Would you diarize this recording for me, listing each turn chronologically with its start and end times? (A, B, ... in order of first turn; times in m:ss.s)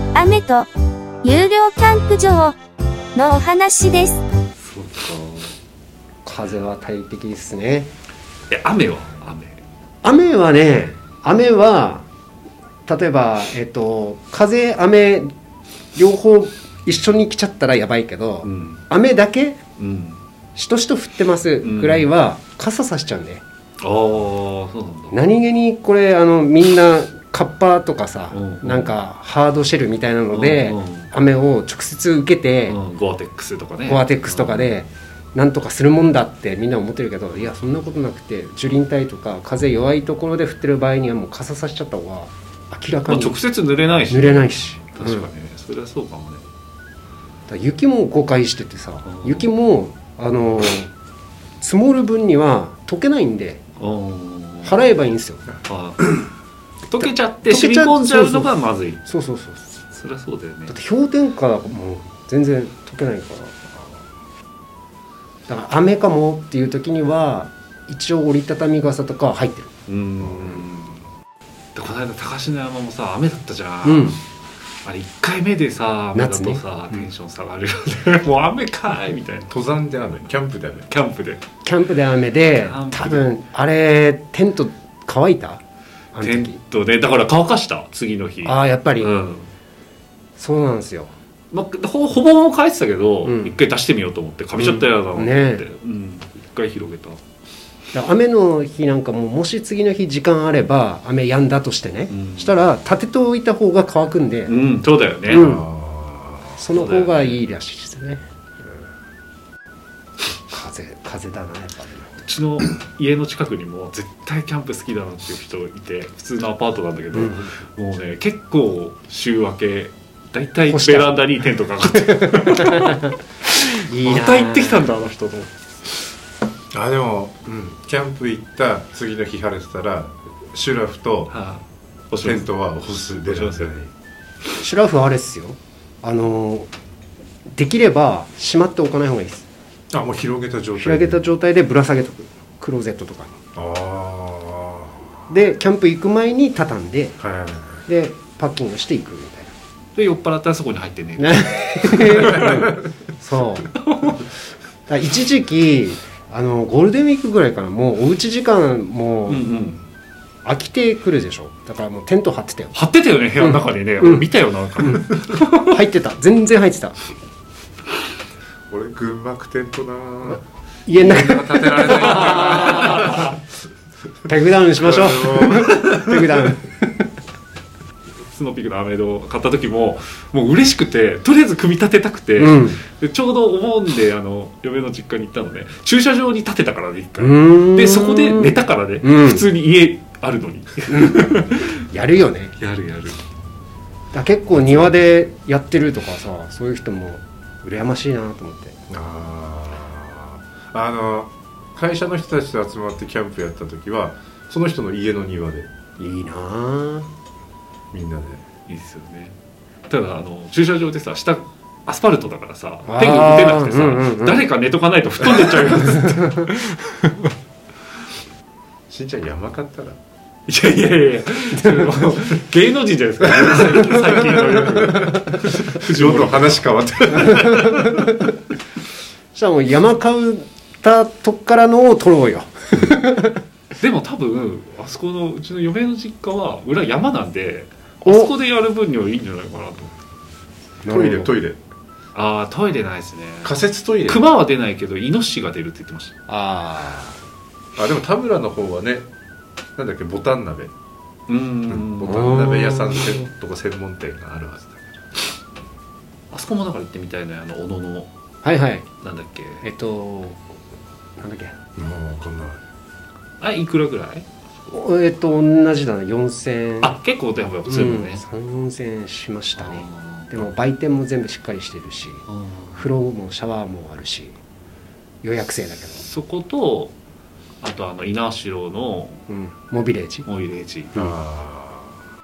0:00.1-0:00.7 A
0:01.2-0:02.6 A
0:03.1-0:04.2 A
0:04.6-0:05.5 B
0:06.2-0:07.9 C
0:08.5-0:09.6 B
0:10.0-0:12.0 C
0:12.8-0:15.3 C
0:16.0-0:19.6 C
0:18.4-0:18.8 B
0:19.8-0:20.2 B
0:20.6-0:23.4 C
0:21.6-0:22.1 B
0:23.8-0:25.2 B
0:25.1-0:32.8 C
0:28.3-0:28.9 B
0:30.3-0:31.1 B
0:32.7-0:34.7 B
0:33.8-0:43.4 C
0:43.1-0:46.5 B
0:44.1-0:45.3 C
0:47.5-0:50.9 C
0:49.1-0:49.5 B
0:51.6-0:53.6 C
0:53.8-0:54.8 B
0:54.6-0:55.5 C
0:55.6-0:56.0 B
0:56.9-0:59.0 B
0:57.0-0:58.5 C
0:59.0-0:59.8 C
0:59.9-1:00.7 B
1:00.7-1:03.8 C
1:05.5-1:09.7 C
1:09.9-1:11.0 B
1:10.2-1:10.6 D
1:11.8-1:14.2 B
1:13.8-1:14.2 C
1:14.8-1:19.5 B
1:16.1-1:17.0 C
1:19.5-1:20.9 D
1:20.9-1:21.4 B
1:21.6-1:25.6 C
1:22.5-1:23.2 B
1:26.1-1:26.6 C
1:26.2-1:29.5 B
1:28.4-1:29.1 C
1:30.4-1:31.1 C
1:31.5-1:37.2 B
1:33.2-1:33.5 C
1:34.6-1:35.7 C
1:37.9-1:44.5 C
1:42.1-1:42.5 B
1:44.5-1:45.5 B
1:45.3-1:45.7 C
1:45.3-1:46.6 D
1:46.6-1:48.2 C
1:46.7-1:47.4 B
1:50.5-1:52.1 C
1:52.2-2:05.5 B
1:57.1-1:57.5 C
2:00.7-2:01.2 C
2:02.2-2:02.7 C
2:03.9-2:04.9 C
2:06.7-2:11.3 D
2:11.3-2:12.5 B
2:12.1-2:13.9 D
2:13.2-2:13.7 B
2:14.6-2:16.7 C
2:17.5-2:19.5 C
2:19.9-2:21.3 D
2:20.8-2:23.4 C
2:23.5-2:24.9 D
2:25.3-2:27.2 C
2:27.2-2:27.8 D
2:27.9-2:29.5 C
2:29.9-2:32.6 B
2:31.2-2:33.7 C
2:32.2-2:32.9 D
2:33.8-2:34.2 B
2:34.9-2:39.5 C
2:39.3-2:39.8 B
2:40.4-2:42.8 C
2:42.7-2:45.7 B
2:43.4-2:44.3 C
2:44.8-2:47.0 C
2:48.7-2:50.4 D
2:50.8-2:52.9 C
2:50.9-2:53.4 D
2:54.2-2:57.0 C
2:54.8-2:56.5 D
2:58.2-3:11.9 B
3:02.4-3:02.8 C
3:07.2-3:09.4 C
3:10.9-3:11.4 C
3:11.9-3:12.5 C
3:12.6-3:13.2 B
3:14.1-3:18.8 C
3:18.9-3:25.7 D
3:26.0-3:27.1 C
3:27.9-3:28.4 D
3:28.7-3:29.4 B
3:29.9-3:37.1 B
3:32.8-3:34.4 C
3:35.4-3:36.5 C
3:38.9-3:40.0 D
3:40.5-3:47.7 B
3:41.6-3:42.0 C
3:43.4-3:48.0 D
3:47.4-3:48.3 C
3:49.3-3:53.4 C
3:53.8-3:59.9 B
3:58.0-3:58.3 C
4:00.8-4:01.3 C
4:00.8-4:01.6 D
4:02.1-4:06.2 B
4:03.4-4:04.2 D
4:06.3-4:07.2 C
4:07.8-4:09.1 D
4:09.8-4:10.7 D
4:11.3-4:12.4 B
4:11.7-4:15.0 D
4:12.1-4:13.2 C
4:16.3-4:18.1 B
4:18.4-4:18.9 C
4:19.0-4:19.7 B
4:19.6-4:20.4 C
4:21.2-4:21.6 C
4:21.8-4:22.6 D
4:23.4-4:24.3 B
4:24.7-4:27.0 C
4:26.8-4:28.2 B
4:27.7-4:34.4 C
4:29.6-4:30.4 B
4:32.3-4:32.9 B
4:35.2-4:36.0 C
4:36.0-4:36.9 B
4:37.6-4:39.2 B
4:39.3-4:40.3 C
4:40.2-4:41.2 B
4:40.9-4:42.0 D